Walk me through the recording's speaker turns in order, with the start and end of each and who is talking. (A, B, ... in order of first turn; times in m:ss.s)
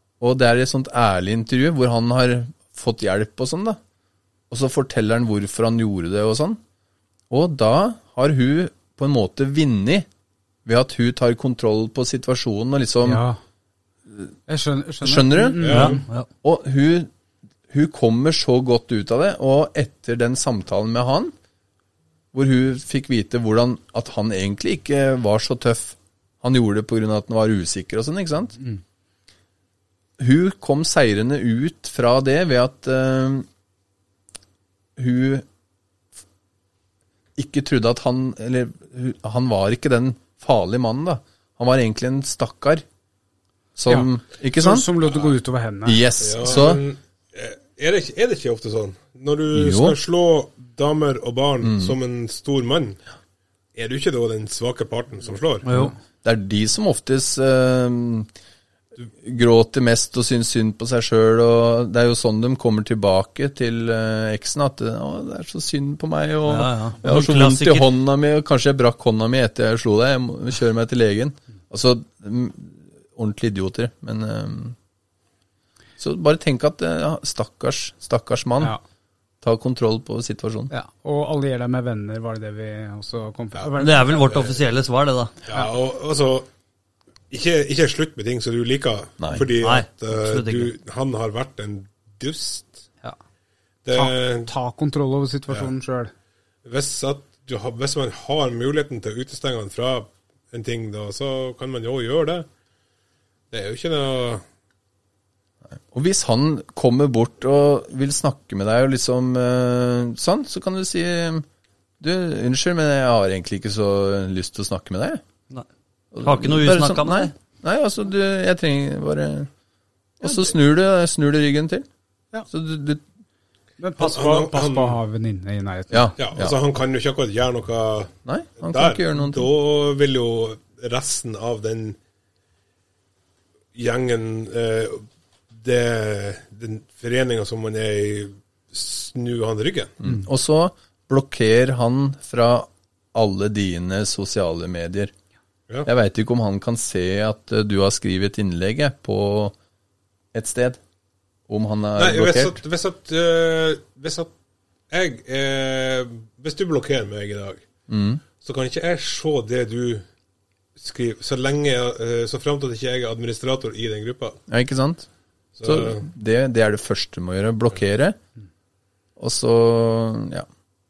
0:00.2-0:03.8 A
0:04.5-0:06.6 A
0:07.3-0:10.0 A
0:10.6-0:13.2 A
0:13.0-0:13.4 B
0:14.5-0:16.0 B
0:15.0-0:15.9 A
0:15.6-0:16.0 C
0:15.7-0:16.3 D
0:16.4-0:17.1 A
0:17.7-0:21.3 A
0:22.3-0:28.6 A
0:30.2-0:33.5 A
0:35.0-0:35.4 A
0:37.4-0:42.8 A
0:43.8-0:44.9 A
0:43.9-0:46.0 B
0:45.8-0:46.8 A
0:46.2-0:53.0 C
0:49.5-0:50.0 A
0:51.6-0:52.0 A
0:53.7-0:55.7 C
0:55.6-0:55.9 D
0:55.7-0:55.9 B
0:56.2-0:58.3 A
0:59.2-1:14.8 A
1:06.5-1:07.9 D
1:16.0-1:18.7 A
1:19.4-1:20.7 A
1:20.7-1:24.5 B
1:23.8-1:25.3 D
1:24.2-1:24.6 C
1:25.4-1:26.5 C
1:27.3-1:32.9 C
1:29.2-1:29.5 A
1:29.6-1:30.7 D
1:33.8-1:34.5 C
1:33.9-1:36.1 B
1:36.6-1:42.5 C
1:43.5-1:44.4 C
1:45.9-1:51.4 A
1:52.0-1:55.2 A
1:56.1-1:59.5 A
1:56.2-1:57.3 D
2:00.2-2:01.8 A
2:02.5-2:03.0 A
2:03.8-2:06.1 B
2:04.0-2:05.0 C
2:05.9-2:06.5 A
2:06.2-2:08.1 C
2:08.2-2:09.5 A
2:08.6-2:12.0 C
2:13.7-2:20.0 C
2:20.0-2:25.1 A
2:25.8-2:29.5 A
2:30.3-2:30.8 A
2:31.5-2:32.6 A
2:32.0-2:34.3 C
2:34.9-2:37.6 C
2:37.9-2:38.2 A
2:38.4-2:40.0 C
2:40.8-2:44.4 C
2:44.5-2:45.1 A
2:45.6-2:46.0 C
2:45.6-2:48.2 A
2:49.2-2:50.5 A